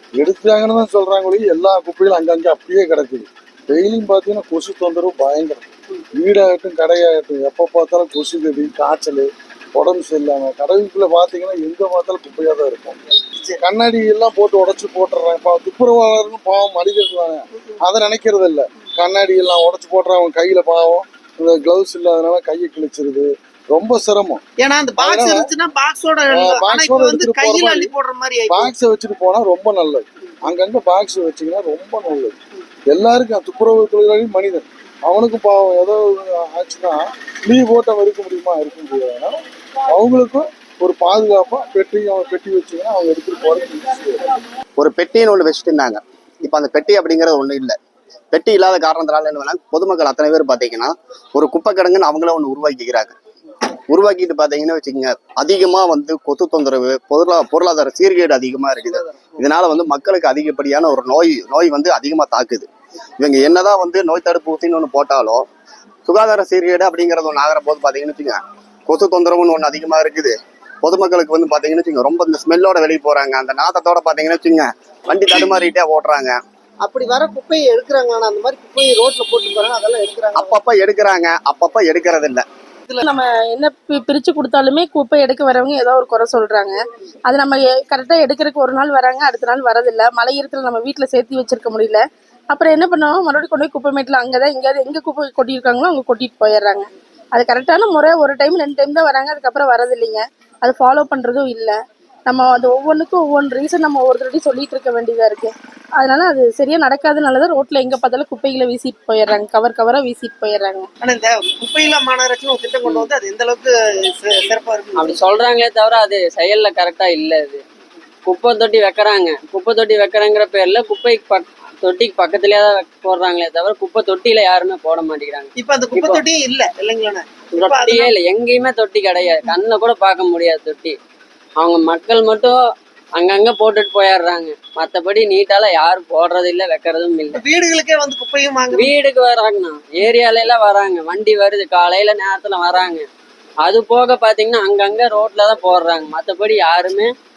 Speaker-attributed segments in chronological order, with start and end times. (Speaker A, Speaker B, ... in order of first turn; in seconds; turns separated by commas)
Speaker A: 0.2-24.4, Speaker B: 24.6-28.7, Speaker A: 25.0-25.5, Speaker A: 26.3-27.9, Speaker A: 28.5-32.4, Speaker A: 32.9-39.4, Speaker A: 39.9-44.4, Speaker C: 44.8-47.8, Speaker C: 48.3-53.1, Speaker C: 53.9-62.7, Speaker C: 63.2-65.5, Speaker C: 66.1-76.4, Speaker B: 76.8-80.6, Speaker C: 80.4-82.5, Speaker D: 83.0-101.8, Speaker D: 102.3-110.9, Speaker B: 111.0-115.2, Speaker E: 115.0-117.6, Speaker E: 118.3-126.2, Speaker B: 125.6-128.1, Speaker E: 127.5-131.0, Speaker E: 131.6-132.6, Speaker E: 133.2-137.4, Speaker B: 137.3-138.9, Speaker E: 138.7-143.1, Speaker E: 143.7-147.1